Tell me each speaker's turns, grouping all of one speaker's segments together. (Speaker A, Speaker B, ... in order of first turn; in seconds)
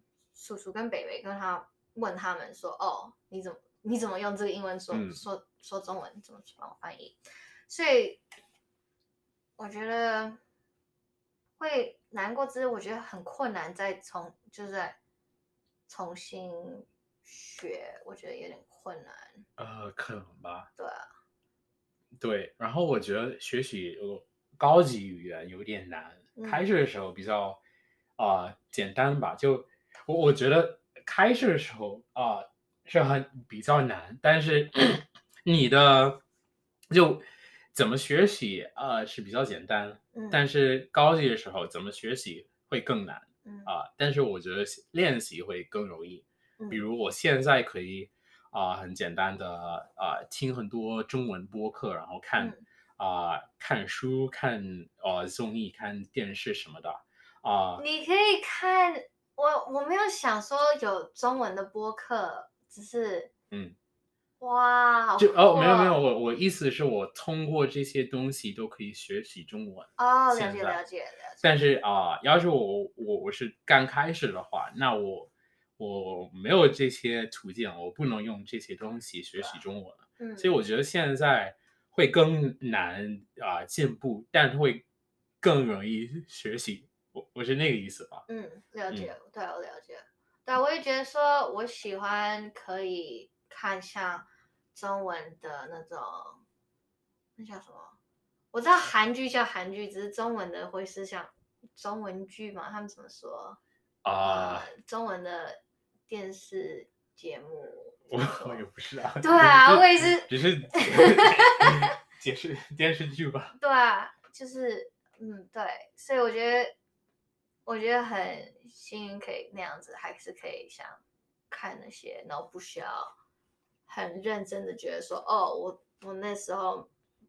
Speaker A: 0.3-8.2, 9.6-10.4, 11.6-15.0, 15.9-19.4, 20.8-21.1, 26.4-26.6, 40.1-40.5, 43.4-43.7, 46.6-46.8, 52.4-52.6, 57.8-63.3, 64.4-66.0, 70.0-71.5, 80.2-80.5, 88.3-96.4, 97.4-98.0, 98.5-103.6, 104.2-108.6, 109.2-111.9, 113.6-116.7, 117.7-123.1, 123.9-126.9
Speaker B: 4.9-5.2, 19.6-20.7, 22.2-27.6, 28.2-36.2, 36.9-57.8, 63.5-63.8, 65.2-70.8, 71.4-84.8, 85.4-88.2, 104.0-104.7, 108.1-113.6